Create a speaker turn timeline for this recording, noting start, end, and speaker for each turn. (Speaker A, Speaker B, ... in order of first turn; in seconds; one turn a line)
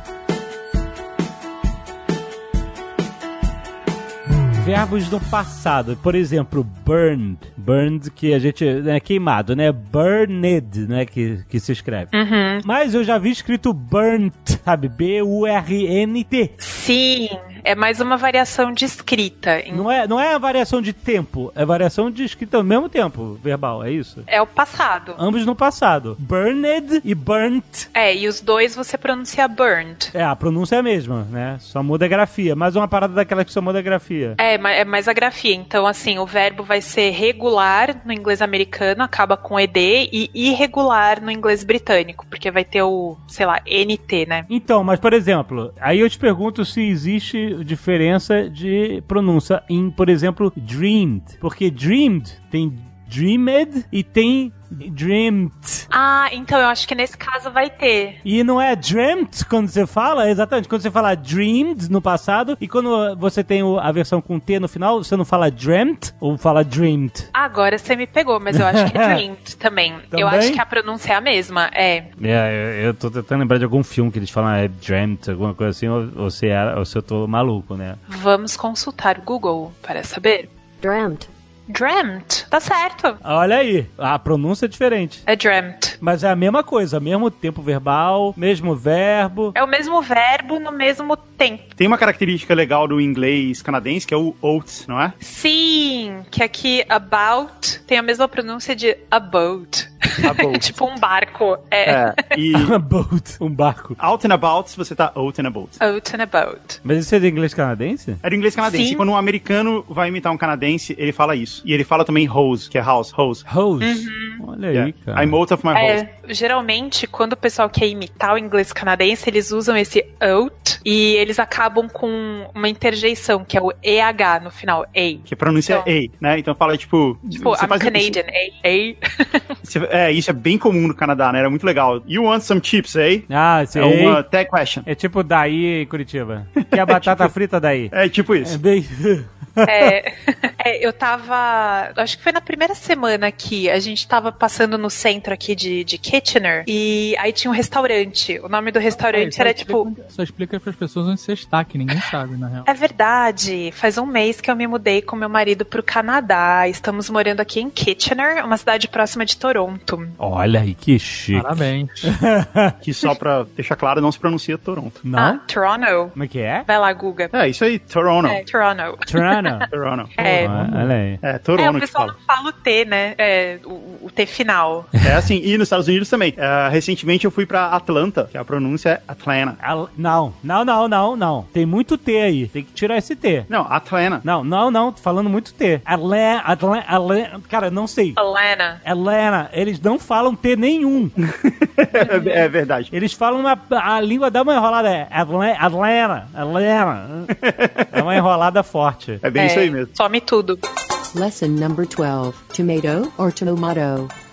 Speaker A: 4.6-16.5
Speaker B: 12.1-12.6
Speaker B: 16.6-19.9
Speaker A: 19.7-24.2
Speaker B: 24.3-25.2
Speaker A: 25.2-27.9
Speaker B: 27.9-30.1
Speaker A: 30.1-34.4
Speaker B: 34.4-44.5
Speaker A: 44.5-55.9
Speaker B: 55.9-58.2
Speaker A: 58.2-67.3
Speaker B: 67.3-72.1
Speaker A: 68.5-69.2
Speaker A: 70.1-70.6
Speaker A: 72.2-78.0
Speaker B: 78.1-80.5
Speaker C: 80.8-81.3
Speaker B: 81.7-83.2
Speaker A: 83.2-85.2
Speaker B: 85.3-86.0
Speaker A: 86.0-89.5
Speaker B: 89.5-91.7
Speaker D: 91.8-95.2
Speaker B: 95.2-102.2
Speaker D: 100.2-100.7
Speaker D: 101.8-102.8
Speaker A: 102.5-104.0
Speaker D: 104.0-105.8
Speaker B: 105.8-106.8
Speaker A: 106.8-108.2
Speaker D: 108.2-113.5
Speaker B: 108.7-109.0
Speaker A: 113.5-115.4
Speaker B: 113.8-114.4
Speaker D: 114.7-116.0
Speaker B: 115.7-125.9
Speaker D: 125.3-128.2
Speaker B: 127.3-129.5
Speaker D: 129.6-134.8
Speaker A: 133.3-134.2
Speaker A: 134.8-137.9
Speaker D: 136.6-137.3
Speaker D: 137.9-138.6
Speaker A: 138.4-139.9
Speaker B: 139.6-149.9
Speaker E: 148.9-152.7
Speaker B: 152.7-160.2
Speaker A: 160.2-162.8
Speaker E: 161.3-162.1
Speaker D: 162.8-165.0
Speaker A: 165.0-165.4
Speaker B: 165.1-167.3
Speaker A: 166.2-166.7
Speaker D: 167.3-168.4
Speaker B: 168.2-169.7
Speaker A: 169.1-169.7
Speaker D: 169.7-172.1
Speaker B: 170.2-170.5
Speaker A: 170.2-171.2
Speaker B: 171.6-174.9
Speaker D: 175.0-179.6
Speaker A: 179.6-183.5
Speaker D: 183.5-184.2
Speaker A: 184.2-188.2
Speaker B: 188.2-188.8
Speaker A: 188.8-191.1
Speaker D: 191.2-192.9
Speaker B: 191.9-192.5
Speaker A: 192.9-197.3
Speaker D: 197.3-198.2
Speaker A: 197.9-199.2
Speaker D: 199.2-199.9
Speaker B: 199.3-200.6
Speaker C: 201.1-204.1